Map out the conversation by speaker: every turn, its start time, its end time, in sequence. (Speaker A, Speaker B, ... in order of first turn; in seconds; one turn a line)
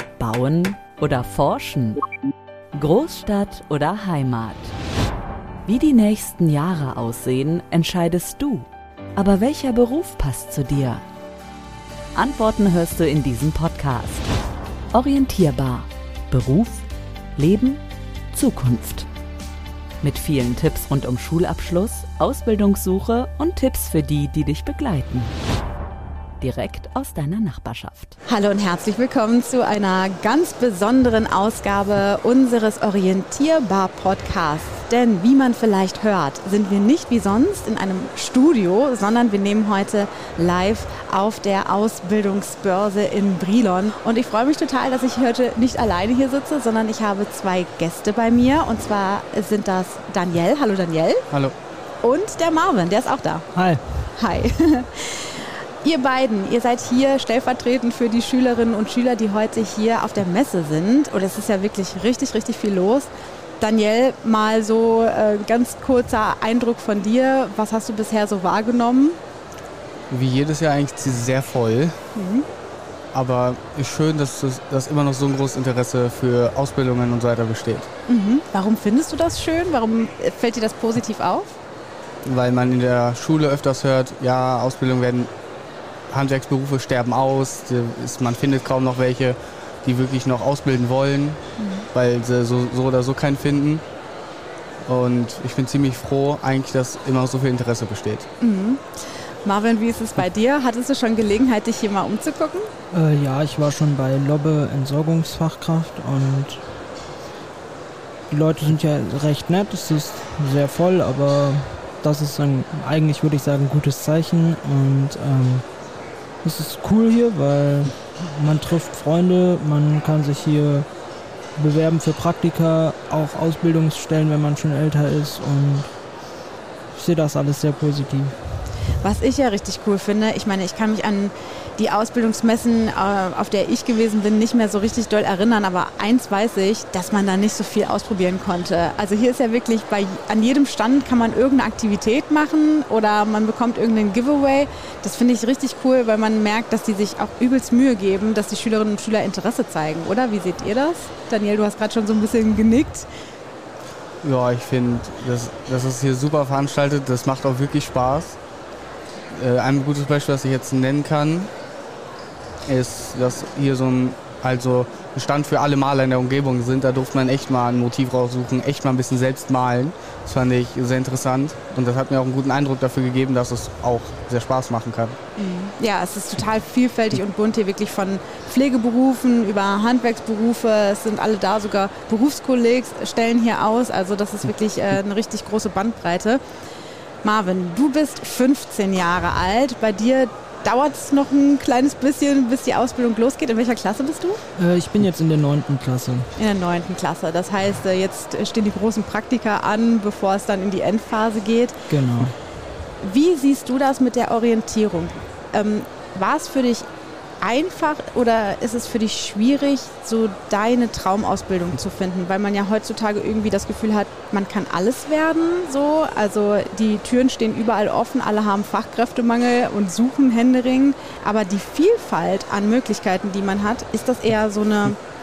Speaker A: 0.2-2.1
Speaker A: 2.8-4.8
Speaker A: 5.7-11.1
Speaker A: 12.2-14.3
Speaker A: 14.9-19.1
Speaker A: 20.0-25.4
Speaker A: 26.4-28.1
Speaker B: 28.3-51.2
Speaker B: 52.0-53.5
Speaker C: 53.5-53.8
Speaker B: 54.2-63.1
Speaker B: 63.6-69.2
Speaker D: 70.1-72.0
Speaker B: 72.2-72.5
Speaker D: 73.1-77.9
Speaker B: 78.1-81.5
Speaker D: 82.2-85.3
Speaker D: 86.1-93.8
Speaker B: 91.6-91.8
Speaker D: 94.9-98.3
Speaker B: 98.4-98.9
Speaker B: 99.4-102.7
Speaker C: 102.9-106.6
Speaker C: 108.3-115.7
Speaker C: 116.4-120.9
Speaker C: 121.6-125.9
Speaker C: 126.9-128.4
Speaker B: 129.0-153.1
Speaker D: 154.2-158.4
Speaker D: 159.3-161.5
Speaker D: 162.7-175.2
Speaker B: 175.4-186.4
Speaker B: 187.2-194.4
Speaker C: 194.6-196.3
Speaker B: 196.4-201.9
Speaker C: 201.9-202.3
Speaker B: 203.0-206.9
Speaker B: 207.4-225.0